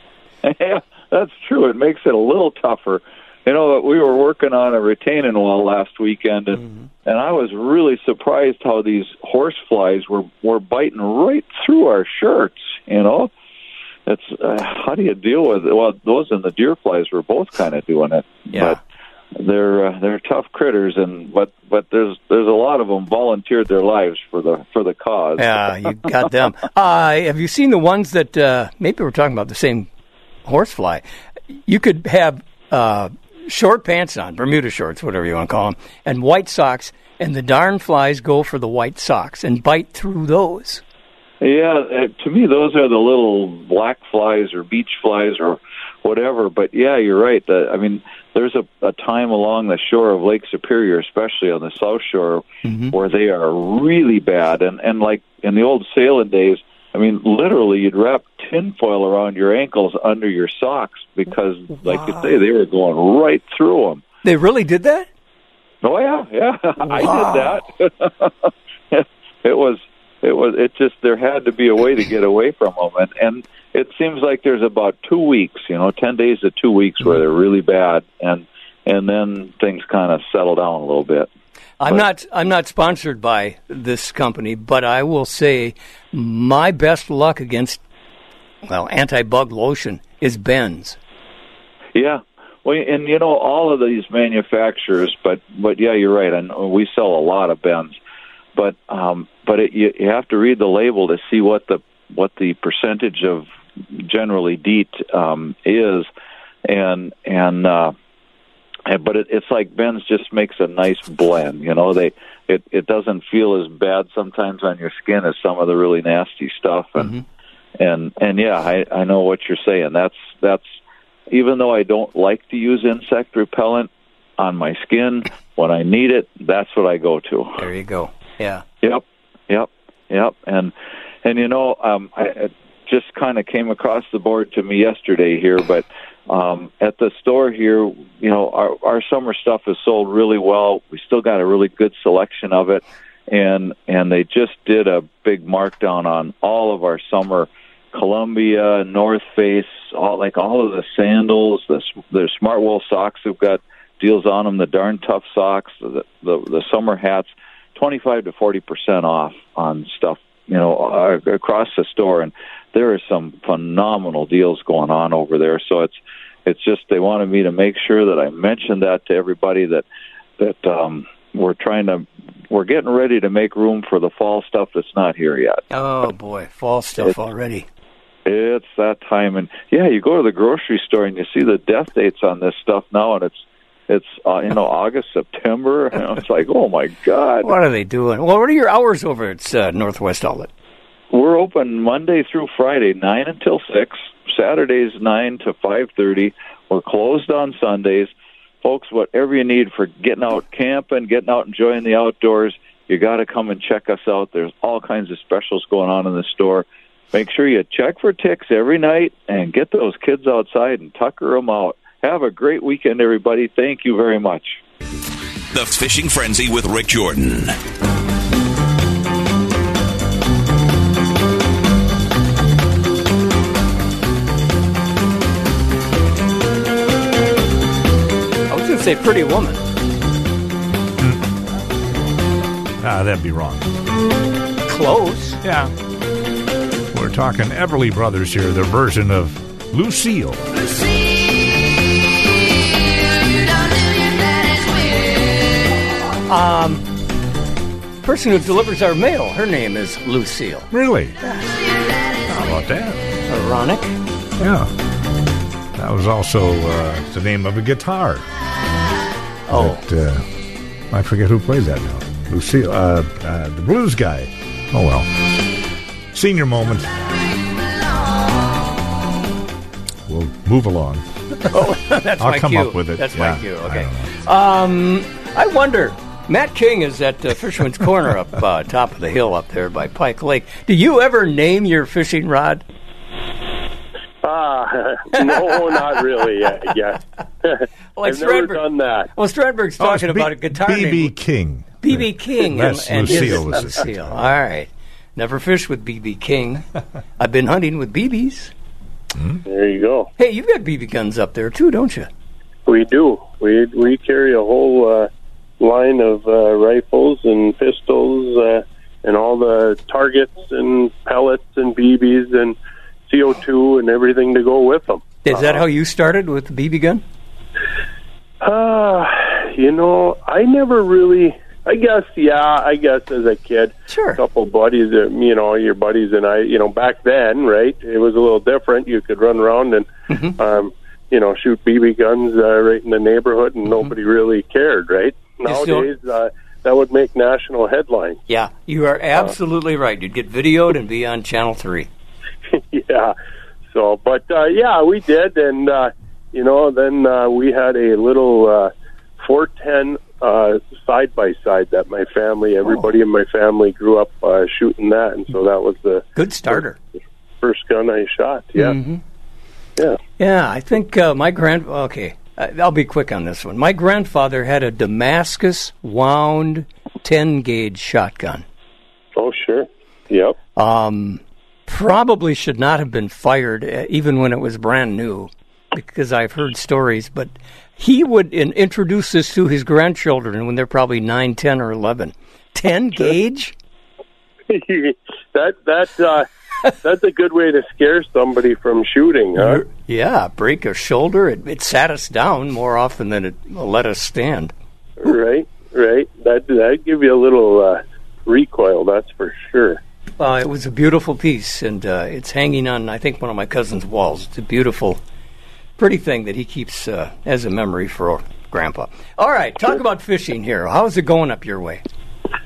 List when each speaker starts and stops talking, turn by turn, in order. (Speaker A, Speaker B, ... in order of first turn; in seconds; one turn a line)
Speaker A: 0.4-13.3
Speaker A: 14.1-18.8
Speaker B: 18.5-18.8
Speaker A: 19.4-25.5
Speaker B: 25.4-29.9
Speaker B: 30.4-31.0
Speaker B: 31.6-40.8
Speaker A: 41.4-64.0
Speaker B: 52.6-52.9
Speaker B: 64.2-65.1
Speaker A: 65.8-81.3
Speaker B: 66.9-67.5
Speaker B: 81.8-87.8
Speaker B: 88.7-91.0
Speaker A: 91.9-98.0
Speaker A: 98.5-106.1
Speaker A: 106.7-107.9
Speaker A: 108.8-117.2
Speaker A: 117.8-120.6
Speaker A: 121.3-127.6
Speaker B: 127.6-128.6
Speaker A: 128.8-130.7
Speaker A: 131.2-169.8
Speaker A: 170.4-175.6
Speaker B: 175.7-177.7
Speaker A: 178.2-187.5
Speaker B: 187.4-190.5
Speaker A: 191.1-198.1
Speaker A: 198.6-214.6
Speaker C: 215.5-217.6
Speaker B: 228.5-229.6
Speaker D: 232.8-233.6
Speaker B: 234.7-235.4
Speaker D: 235.4-235.7
Speaker D: 236.9-240.4
Speaker B: 246.3-246.9
Speaker B: 248.0-250.7
Speaker D: 250.7-251.2
Speaker D: 252.3-253.1
Speaker B: 253.3-253.9
Speaker D: 254.4-254.7
Speaker D: 255.8-258.2
Speaker B: 259.5-259.8
Speaker D: 259.5-260.3
Speaker D: 260.9-265.1
Speaker D: 266.1-267.1
Speaker D: 270.1-271.0
Speaker B: 271.5-282.6
Speaker D: 272.2-274.1
Speaker E: 284.2-289.1
Speaker B: 285.3-285.5
Speaker B: 287.9-291.1
Speaker D: 289.8-294.2
Speaker B: 291.8-296.6
Speaker B: 297.2-298.5
Speaker D: 299.1-299.4
Speaker E: 299.4-300.1
Speaker B: 300.2-302.1
Speaker E: 302.6-305.1
Speaker E: 305.6-312.6
Speaker E: 313.1-315.6
Speaker B: 315.2-317.0
Speaker E: 318.4-338.2
Speaker B: 323.9-324.2
Speaker B: 330.1-330.4
Speaker B: 335.4-335.9
Speaker B: 338.3-341.9
Speaker E: 342.5-343.1
Speaker E: 343.7-356.6
Speaker B: 356.1-356.8
Speaker E: 357.4-358.8
Speaker B: 358.6-359.0
Speaker B: 360.2-368.4
Speaker E: 369.1-370.4
Speaker B: 370.6-383.5
Speaker E: 384.5-386.3
Speaker E: 386.8-389.6
Speaker B: 389.4-394.5
Speaker E: 395.0-399.8
Speaker B: 400.2-405.0
Speaker B: 405.8-411.8